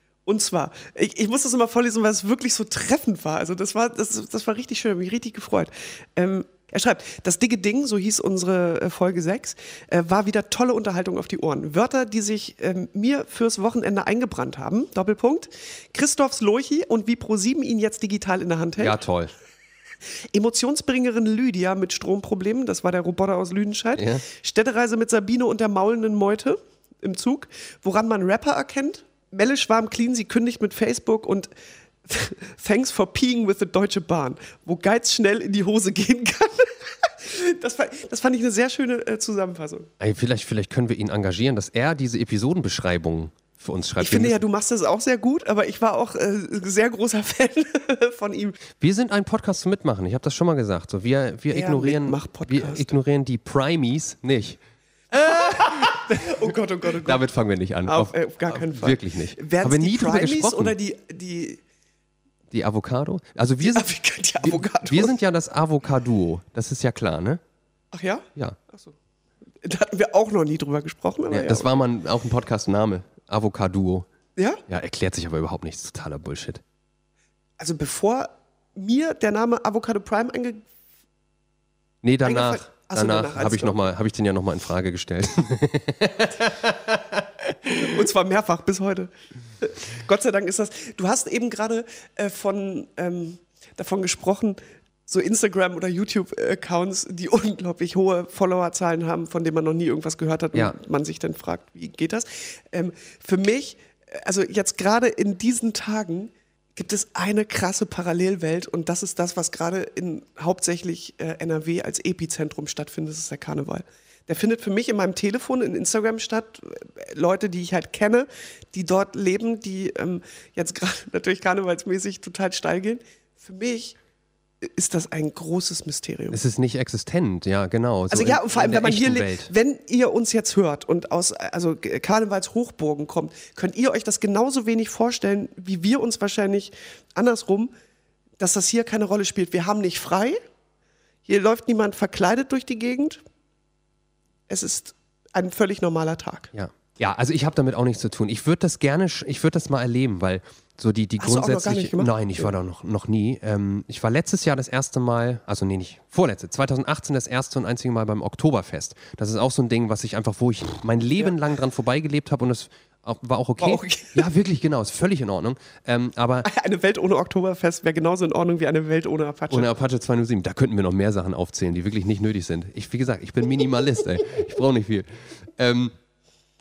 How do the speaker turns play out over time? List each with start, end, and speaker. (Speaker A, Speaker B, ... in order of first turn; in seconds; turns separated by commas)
Speaker A: 0.2-18.9, Speaker B: 18.8-19.3, Speaker A: 20.3-31.5, Speaker B: 24.0-24.2, Speaker A: 32.0-39.9, Speaker B: 40.0-44.4, Speaker A: 44.0-48.6, Speaker B: 48.8-54.6, Speaker A: 51.5-52.9, Speaker A: 55.1-57.2, Speaker B: 55.2-56.3, Speaker B: 57.0-60.7, Speaker A: 57.9-61.6, Speaker B: 62.5-63.9, Speaker A: 63.6-65.1, Speaker B: 64.4-67.4, Speaker A: 67.9-68.9, Speaker A: 69.6-71.7, Speaker B: 71.3-74.1, Speaker B: 74.7-76.6, Speaker A: 77.6-80.6, Speaker B: 82.0-88.0, Speaker A: 82.2-83.8, Speaker A: 87.7-124.0, Speaker A: 124.6-126.4, Speaker B: 126.3-129.5, Speaker A: 128.1-137.7, Speaker A: 138.4-140.4, Speaker A: 141.2-143.2, Speaker A: 144.5-146.5, Speaker B: 146.5-166.5, Speaker A: 151.2-152.5, Speaker A: 163.6-164.2, Speaker A: 166.4-169.7, Speaker B: 169.5-175.9